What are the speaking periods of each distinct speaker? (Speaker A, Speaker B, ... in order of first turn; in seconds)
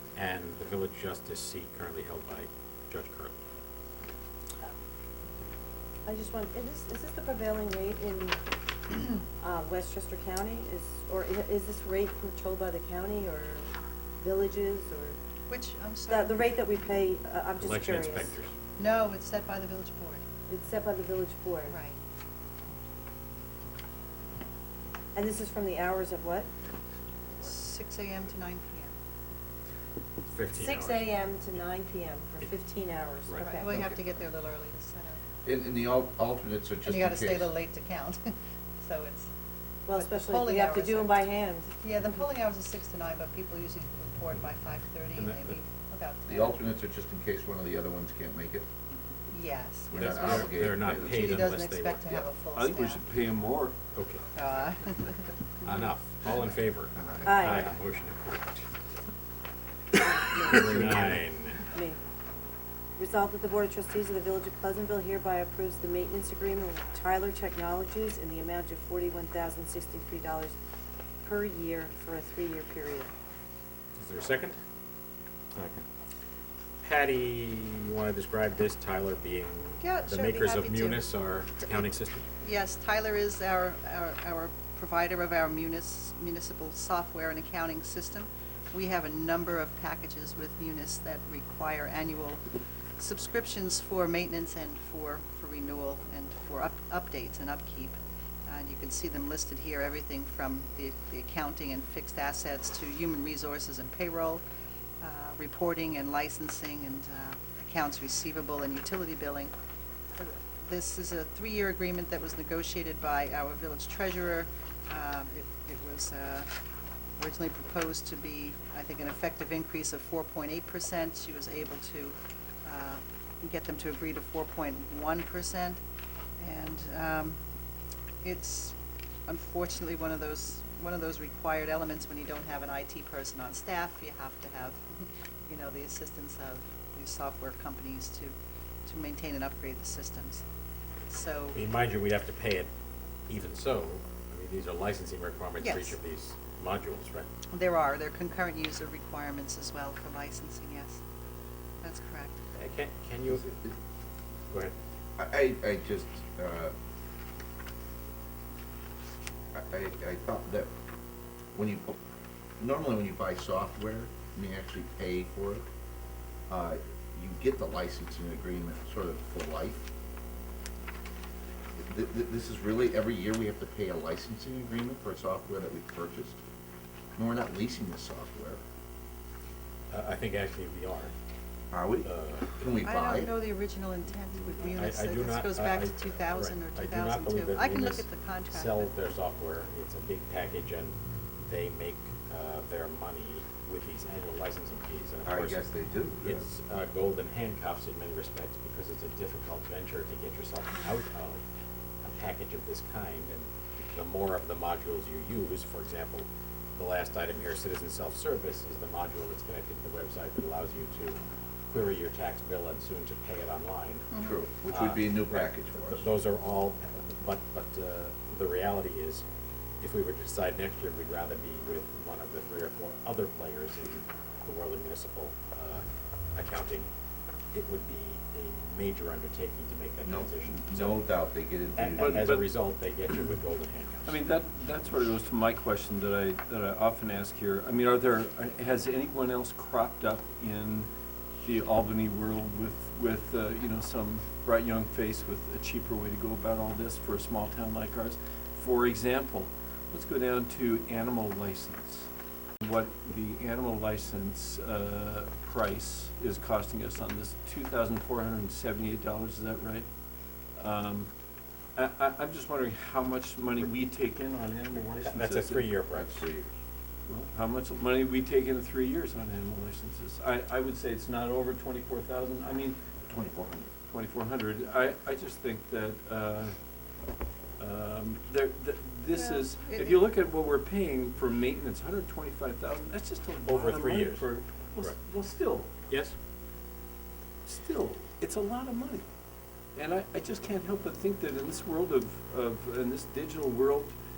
Speaker A: 0.2-3.4, 17.6-18.5, 30.2-31.1, 49.9-52.3, 53.9-54.2, 55.6-58.7, 60.4-61.6, 74.0-74.6, 75.5-75.8, 76.8-82.3, 141.5-142.7, 143.3-147.3, 152.5-153.4, 154.5-154.8, 179.9-181.1, 182.0-182.8, 184.7-195.6, 196.2-201.4, 202.0-214.1, 214.7-219.2, 219.8-226.9, 227.5-231.0, 231.8-234.2, 265.0-266.2, 283.4-285.0, 285.9-286.1
Speaker B: 6.0-8.4, 8.9-15.2, 16.1-18.4, 20.5-21.8, 25.1-26.5, 30.5-33.9, 39.9-41.8, 57.2-57.7, 60.0-61.1, 61.7-62.0, 63.0-70.6, 71.2-73.1
Speaker C: 15.5-16.6, 18.8-20.2, 21.7-22.0, 27.4-28.9, 33.5-35.2, 36.8-38.2, 38.8-39.3, 40.0-41.3, 41.8-46.6, 49.3-53.0, 54.3-55.7, 79.8-81.1, 81.6-81.9, 82.4-92.4, 93.0-104.4, 105.0-109.5, 110.2-116.5, 117.2-125.8, 126.4-127.4, 128.2-128.8, 129.3-134.9, 135.5-138.3, 138.8-140.4, 141.1-141.6, 145.6-146.0, 147.5-151.0, 151.8-152.4, 182.8-188.9, 214.1-214.4, 279.1-280.0
Speaker D: 33.7-34.1, 35.5-37.5, 46.3-48.7, 49.9-51.5, 57.0-57.6, 153.3-153.8, 155.2-156.7, 159.5-160.7, 161.5-162.0, 162.6-165.6, 166.5-169.9, 171.8-176.4, 177.2-178.6, 181.7-183.3, 195.2-196.5, 214.2-216.1, 230.0-232.3, 265.9-266.5, 273.1-273.7
Speaker E: 52.5-53.8, 231.9-232.5, 234.1-252.1, 252.6-259.9, 260.6-261.1, 261.8-265.7, 267.1-272.8, 273.9-276.6, 277.6-285.7, 287.4-289.1, 289.8-293.9